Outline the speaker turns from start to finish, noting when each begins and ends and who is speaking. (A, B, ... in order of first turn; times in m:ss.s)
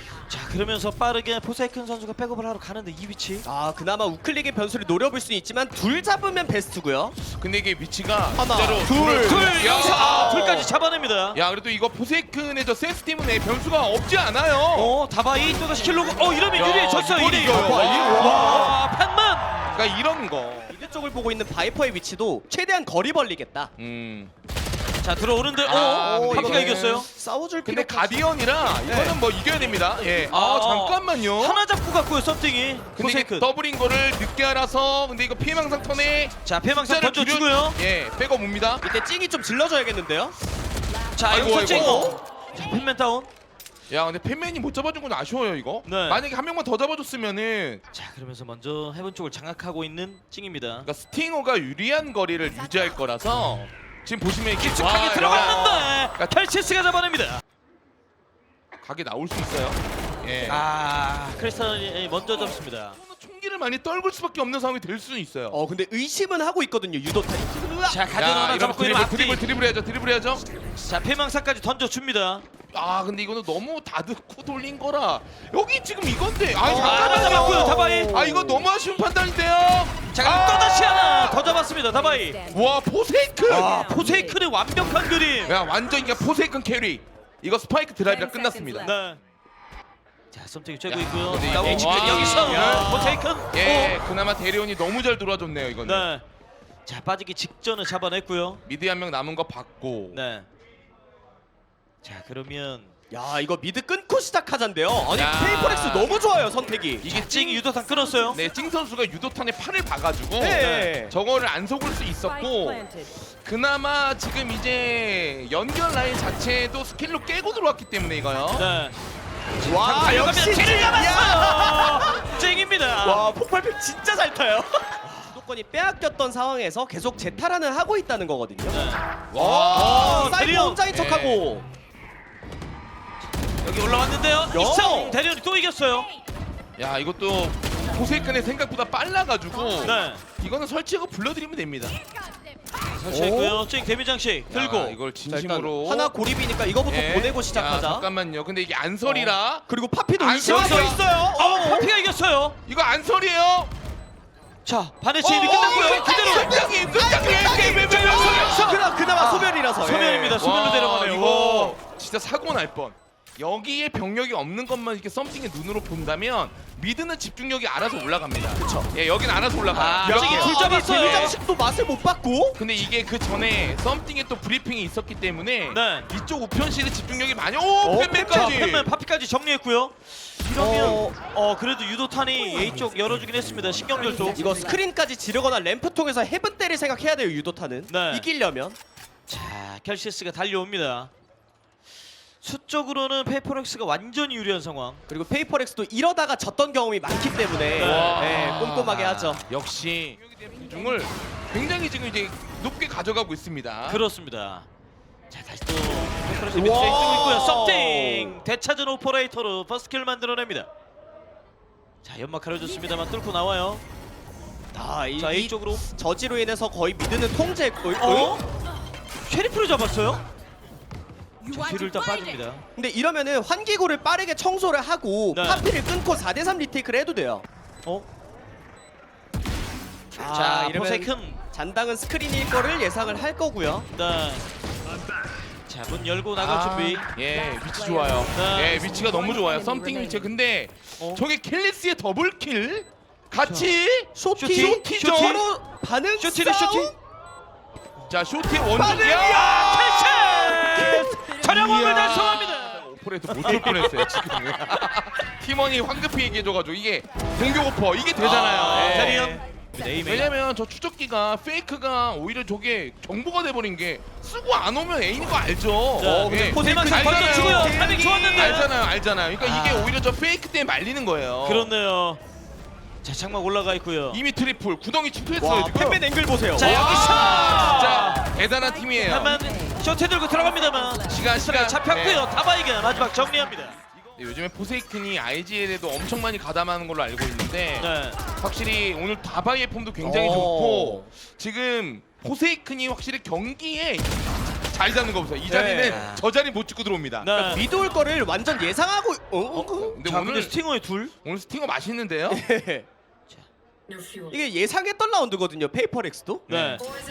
0:00.3-0:03.5 A
0:03.4-0:07.2 B
0:07.3-0:10.7 C
0:08.3-0:10.7 B
0:09.2-0:11.4 A
0:11.3-0:15.0 C
0:14.8-0:19.9 A
0:16.5-0:18.8 C
0:17.5-0:18.8 B
0:19.7-0:20.7 C
0:20.7-0:23.7 B
0:23.8-0:24.3 C
0:25.0-0:27.1 A
0:25.6-0:27.1 C
0:25.7-0:29.2 B
0:27.6-0:31.6 C
0:30.3-0:33.5 A
0:33.0-0:38.8 C
0:36.4-0:37.8 A
0:38.8-0:40.4 B
0:41.2-0:43.3 A
0:41.3-0:42.1 C
0:41.4-0:42.2 B
0:43.9-0:47.8 C
0:45.8-0:46.2 A
0:47.9-0:50.9 A
0:50.8-0:56.3 C
0:54.6-0:57.4 A
0:58.8-1:00.7 C
1:00.5-1:03.0 A
1:02.9-1:05.6 C
1:05.5-1:08.0 B
1:07.9-1:09.4 A
1:08.1-1:10.4 C
1:10.8-1:12.4 A
1:12.7-1:21.5 C
1:16.6-1:18.6 B
1:16.7-1:18.1 A
1:20.1-1:22.4 A
1:22.5-1:24.0 C
1:23.5-1:25.5 A
1:25.5-1:29.0 C
1:28.8-1:29.2 A
1:30.3-1:34.0 A
1:30.9-1:36.1 C
1:31.5-1:33.2 B
1:35.8-1:36.2 A
1:36.9-1:38.6 A
1:38.7-1:40.2 C
1:40.1-1:40.5 A
1:42.0-1:42.9 A
1:43.1-1:47.1 B
1:45.1-1:46.1 C
1:47.0-1:47.6 C
1:47.1-1:48.4 A
1:48.3-1:58.7 C
1:50.4-1:51.1 B
1:50.6-1:50.9 A
1:58.6-1:59.0 A
1:59.6-2:03.3 A
1:59.6-2:02.3 B
2:03.0-2:08.8 B
2:08.7-2:09.0 A
2:09.3-2:10.4 C
2:09.4-2:11.7 B
2:09.7-2:10.8 A
2:10.9-2:11.4 C
2:13.6-2:16.1 A
2:14.5-2:15.2 B
2:16.8-2:22.0 C
2:19.8-2:20.2 A
2:22.9-2:25.0 A
2:23.1-2:23.6 C
2:24.5-2:26.1 C
2:25.3-2:28.1 B
2:26.9-2:29.7 C
2:29.0-2:31.9 B
2:30.2-2:31.0 C
2:30.4-2:32.6 A
2:32.7-2:33.7 C
2:34.7-2:36.2 A
2:35.2-2:39.6 C
2:35.3-2:40.4 B
2:37.9-2:38.9 A
2:39.8-2:41.8 A
2:40.4-2:51.4 C
2:48.6-2:48.9 B
2:49.7-2:51.4 A
2:50.0-2:52.6 B
2:52.6-2:58.9 C
2:55.7-2:56.1 A
2:57.9-2:58.4 B
2:57.9-3:04.4 A
3:00.6-3:01.2 B
3:04.3-3:08.8 B
3:07.9-3:08.3 A
3:09.3-3:11.1 A
3:12.4-3:15.0 A
3:15.1-3:19.4 B
3:17.8-3:18.7 C
3:17.8-3:19.4 A
3:19.5-3:24.0 C
3:23.9-3:24.7 A
3:25.3-3:30.7 A
3:26.5-3:28.4 B
3:32.0-3:33.8 A
3:34.7-3:38.4 B
3:35.2-3:35.8 A
3:38.0-3:38.4 A
3:39.3-3:40.2 A
3:41.5-3:42.6 A
3:42.8-3:47.4 B
3:45.3-3:45.7 A
3:50.2-3:53.9 B
3:50.2-3:51.4 A
3:53.9-3:54.4 A
3:55.7-3:57.1 A
3:56.4-4:05.4 C
3:58.3-3:58.8 A
4:04.2-4:07.0 B
4:04.4-4:05.4 A
4:06.2-4:06.9 A
4:08.1-4:09.7 C
4:08.7-4:11.6 B
4:08.8-4:14.6 A
4:11.4-4:19.4 C
4:18.2-4:20.3 A
4:18.9-4:19.4 B
4:20.0-4:31.7 C
4:26.0-4:28.7 A
4:26.3-4:28.7 B
4:29.4-4:30.0 A
4:31.4-4:32.2 A
4:33.0-4:34.2 A
4:34.1-4:36.0 C
4:35.4-4:36.8 B
4:36.6-4:38.2 A
4:36.6-4:39.4 C
4:39.0-4:43.8 A
4:41.1-4:42.3 C
4:44.0-4:57.3 C
4:47.8-4:48.2 A
4:50.0-4:51.1 B
4:55.5-4:56.1 B
4:55.8-4:56.2 A
4:57.2-4:57.6 A
4:57.3-5:00.0 B
4:59.6-5:01.1 A
4:59.8-5:00.6 C
5:01.2-5:02.4 C
5:02.3-5:02.9 B
5:04.3-5:06.5 B
5:06.5-5:06.8 C
5:06.5-5:06.9 A